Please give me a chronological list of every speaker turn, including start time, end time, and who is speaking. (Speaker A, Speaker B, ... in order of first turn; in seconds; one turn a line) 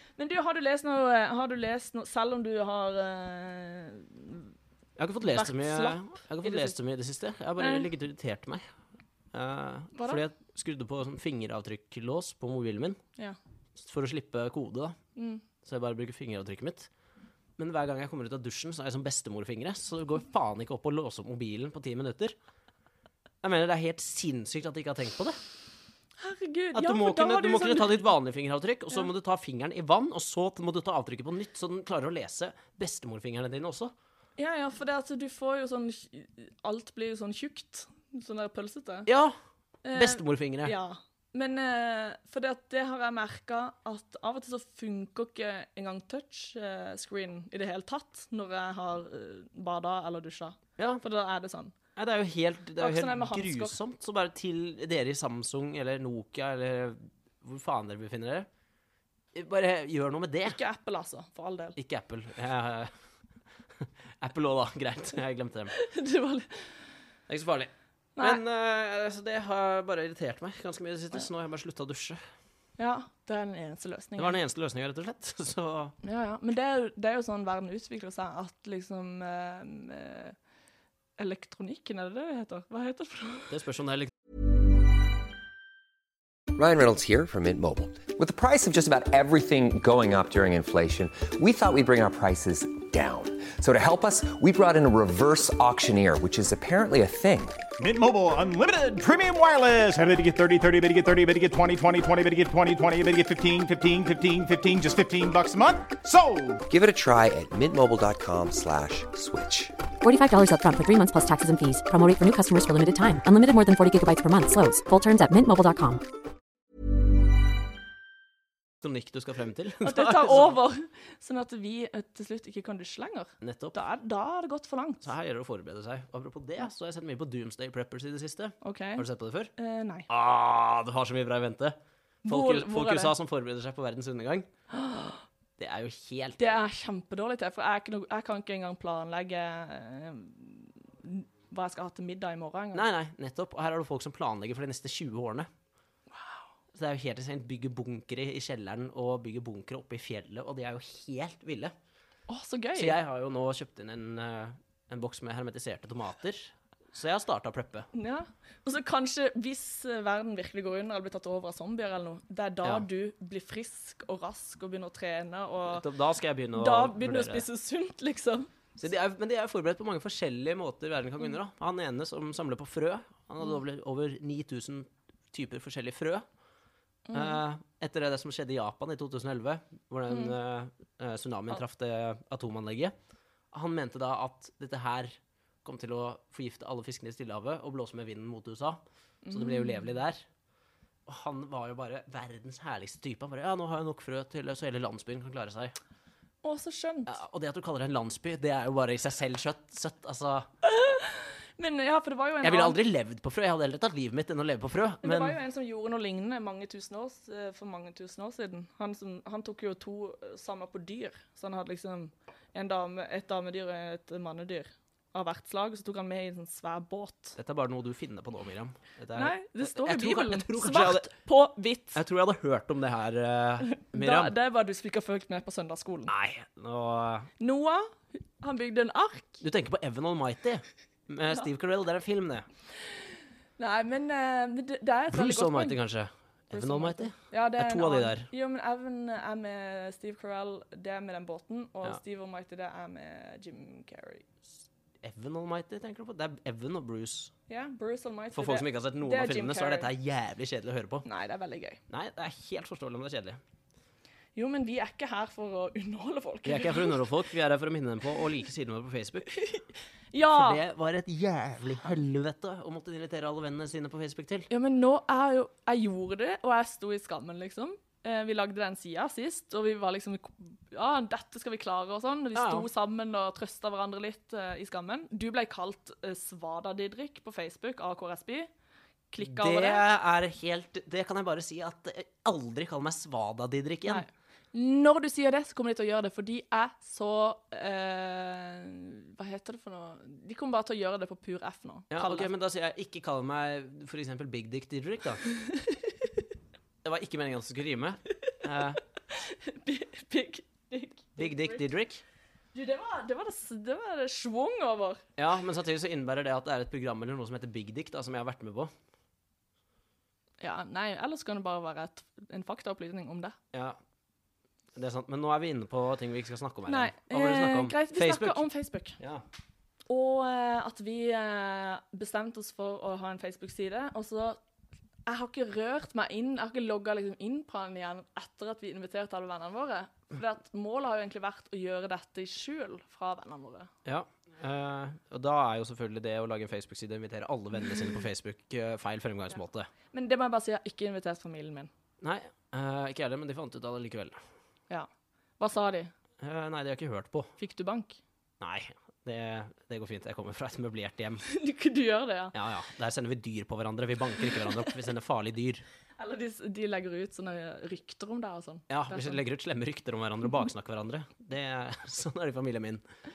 Speaker A: 0.2-4.5
Speaker B: 5.0-8.6
Speaker A: 5.2-6.8
Speaker A: 7.6-7.9
Speaker B: 9.3-13.0
Speaker A: 9.9-10.2
Speaker B: 13.7-15.0
Speaker A: 15.2-15.4
Speaker B: 15.6-16.9
Speaker B: 17.6-22.3
Speaker B: 23.4-25.4
Speaker A: 26.2-28.1
Speaker B: 26.7-33.9
Speaker A: 34.4-39.1
Speaker B: 39.1-39.3
Speaker A: 39.8-51.7
Speaker B: 39.9-40.7
Speaker B: 50.8-51.0
Speaker B: 52.0-58.5
Speaker A: 52.8-53.8
Speaker B: 59.3-60.6
Speaker A: 60.4-61.8
Speaker B: 61.8-62.9
Speaker B: 64.2-65.8
Speaker A: 65.7-66.8
Speaker B: 67.3-72.2
Speaker A: 68.2-68.4
Speaker A: 72.8-74.4
Speaker B: 74.2-75.9
Speaker A: 76.0-80.3
Speaker A: 81.2-83.5
Speaker B: 83.5-84.1
Speaker C: 86.5-97.6
Speaker D: 97.8-106.6
Speaker C: 106.7-109.7
Speaker E: 110.0-116.0
Speaker B: 118.8-120.6
Speaker A: 119.8-125.1
Speaker B: 123.4-123.8
Speaker B: 125.0-129.5
Speaker A: 128.6-129.1
Speaker A: 129.6-130.1
Speaker B: 130.1-134.5
Speaker A: 132.2-133.1
Speaker A: 134.7-135.2
Speaker B: 135.6-136.5
Speaker A: 136.4-142.8
Speaker B: 142.7-145.5
Speaker A: 146.1-146.4
Speaker B: 146.7-151.7
Speaker A: 152.3-153.0
Speaker B: 152.8-157.9
Speaker A: 157.9-165.9
Speaker B: 165.7-167.4
Speaker A: 166.5-168.5
Speaker B: 168.8-176.2
Speaker A: 177.1-177.4
Speaker B: 177.1-182.9
Speaker A: 180.1-180.3
Speaker B: 183.5-190.2
Speaker A: 189.2-189.9
Speaker B: 191.1-195.7
Speaker A: 196.4-197.1
Speaker B: 197.1-200.5
Speaker A: 200.6-202.8
Speaker B: 202.4-205.3
Speaker A: 205.0-217.3
Speaker B: 217.3-221.1
Speaker A: 219.1-222.0
Speaker B: 221.9-224.3
Speaker A: 223.6-226.1
Speaker B: 226.1-227.3
Speaker A: 227.4-229.4
Speaker B: 229.4-232.5
Speaker A: 232.8-235.8
Speaker B: 235.1-238.3
Speaker A: 236.5-244.2
Speaker B: 245.0-247.3
Speaker A: 247.5-249.9
Speaker B: 248.3-251.1
Speaker A: 251.0-251.8
Speaker B: 251.9-253.4
Speaker A: 254.3-257.0
Speaker B: 256.4-259.4
Speaker A: 259.3-260.6
Speaker B: 260.3-264.5
Speaker A: 264.5-278.5
Speaker B: 272.3-272.7
Speaker A: 279.1-279.8
Speaker B: 279.2-284.0
Speaker A: 283.9-292.3
Speaker B: 291.9-295.2
Speaker A: 295.4-295.8
Speaker B: 296.8-298.8
Speaker A: 299.1-301.6
Speaker B: 301.2-302.0
Speaker A: 302.5-305.0
Speaker B: 305.2-308.7
Speaker A: 310.4-313.4
Speaker B: 313.5-313.8
Speaker B: 314.7-318.4
Speaker A: 316.7-319.0
Speaker A: 319.9-324.4
Speaker A: 325.1-333.7
Speaker B: 333.8-339.7
Speaker A: 339.9-341.7
Speaker B: 342.0-344.2
Speaker A: 344.7-345.9
Speaker B: 346.2-347.3
Speaker A: 347.4-348.0
Speaker B: 348.4-351.2
Speaker A: 351.2-352.3
Speaker B: 352.3-355.6
Speaker A: 356.0-359.2
Speaker B: 358.7-362.8